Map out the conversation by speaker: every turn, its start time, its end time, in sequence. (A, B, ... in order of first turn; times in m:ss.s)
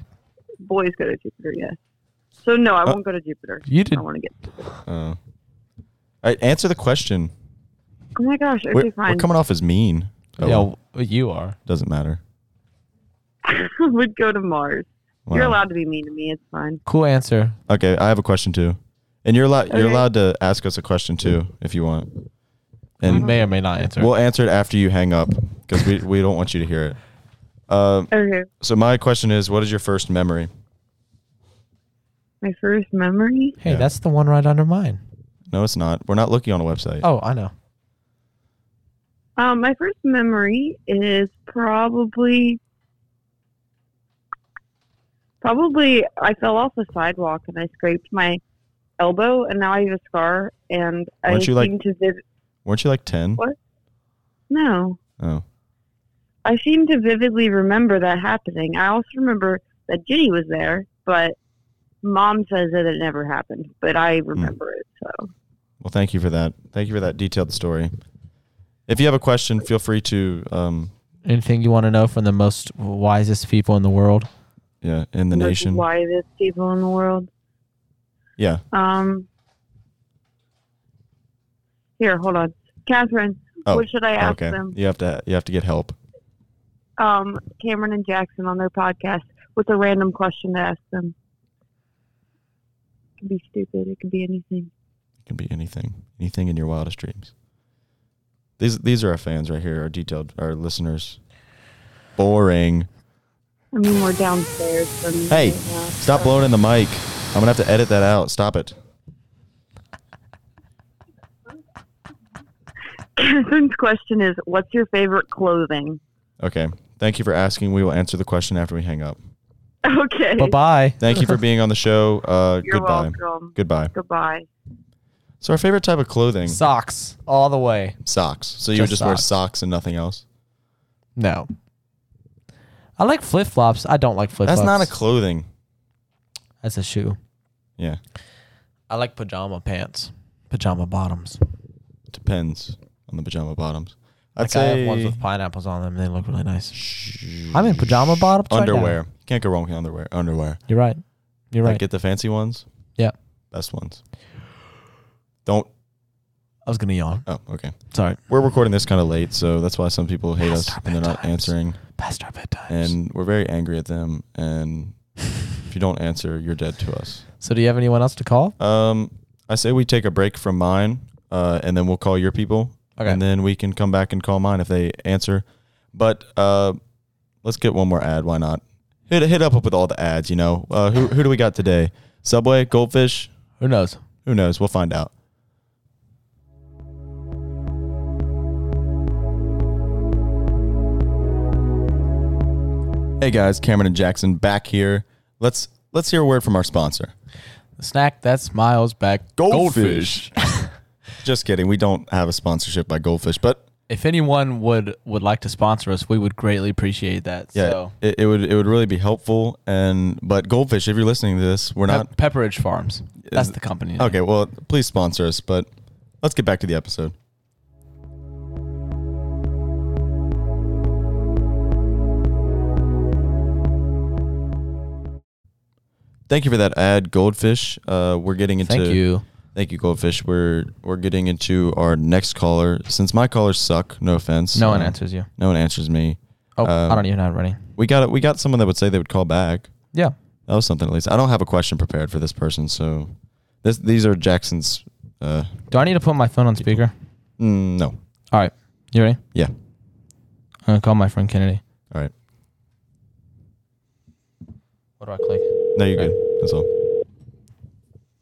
0:00.6-0:01.8 A
0:02.4-0:04.8 A
0:03.7-0:04.0 B
0:04.8-0:05.2 C
0:06.2-0:07.3 C
0:08.2-0:09.3 A
0:08.7-0:10.7 C
0:10.4-0:11.6 B
0:11.6-0:12.2 C
0:13.4-0:16.8 A
0:15.3-0:15.6 C
0:16.8-0:17.6 B
0:17.7-0:22.1 C
0:19.7-0:20.0 A
0:23.0-0:27.0 C
0:23.0-0:24.1 B
0:27.7-0:30.5 C
0:28.1-0:28.5 A
0:32.4-0:33.6 A
0:33.6-0:35.0 B
0:35.5-0:37.0 C
0:37.0-0:37.5 B
0:39.4-0:42.6 A
0:45.4-0:48.4 A
0:49.0-0:52.2 A
0:51.3-0:51.7 C
0:52.6-0:53.4 C
0:54.5-0:55.0 A
0:55.2-0:55.4 C
0:56.4-1:01.4 A
1:02.0-1:05.3 A
1:05.8-1:08.0 C
1:08.9-1:10.9 C
1:11.2-1:14.3 B
1:14.8-1:15.8 C
1:15.3-1:17.3 A
1:18.4-1:18.6 C
1:18.7-1:19.3 A
1:22.0-1:24.8 A
1:23.6-1:26.0 C
1:27.0-1:31.1 A
1:33.2-1:34.7 A
1:35.2-1:37.3 C
1:38.6-1:41.2 C
1:42.2-1:42.9 C
1:43.7-1:46.4 A
1:45.3-1:48.8 C
1:53.2-1:56.0 A
1:56.4-1:59.2 C
1:59.8-2:00.6 A
2:00.4-2:01.3 B
2:01.0-2:03.9 C
2:02.6-2:04.4 A
2:05.4-2:06.6 C
2:06.4-2:08.0 B
2:08.0-2:10.2 C
2:08.7-2:09.3 B
2:11.2-2:11.5 B
2:13.0-2:14.9 B
2:14.4-2:15.5 C
2:16.6-2:17.2 B
2:18.9-2:21.4 B
2:22.1-2:25.2 C
2:24.4-2:26.8 B
2:26.7-2:30.6 C
2:27.5-2:29.0 B
2:30.7-2:31.8 B
2:31.6-2:32.6 C
2:33.5-2:34.0 C
2:36.6-2:38.2 B
2:37.2-2:41.8 C
2:40.4-2:42.9 B
2:42.7-2:45.0 C
2:45.6-2:47.2 C
2:47.4-2:48.5 B
2:48.6-2:56.8 C
2:57.4-3:03.3 C
3:03.6-3:04.0 B
3:04.2-3:05.1 C
3:13.2-3:17.1 C
3:17.8-3:20.7 B
3:19.4-3:20.4 C
3:21.2-3:23.6 C
3:23.9-3:27.9 B
3:27.5-3:32.1 C
3:31.9-3:34.1 B
3:33.2-3:35.7 C
3:36.2-3:37.1 C
3:46.3-3:49.0 C
3:48.6-3:49.2 B
3:49.5-3:57.1 C
3:54.5-3:55.3 B
3:56.6-3:57.6 B
3:57.7-3:59.7 C
4:00.5-4:05.7 C
4:05.7-4:06.9 B
4:06.6-4:06.8 C
4:07.4-4:08.0 C
4:08.3-4:09.2 B
4:10.6-4:11.6 B
4:15.0-4:16.2 B
4:15.7-4:16.7 C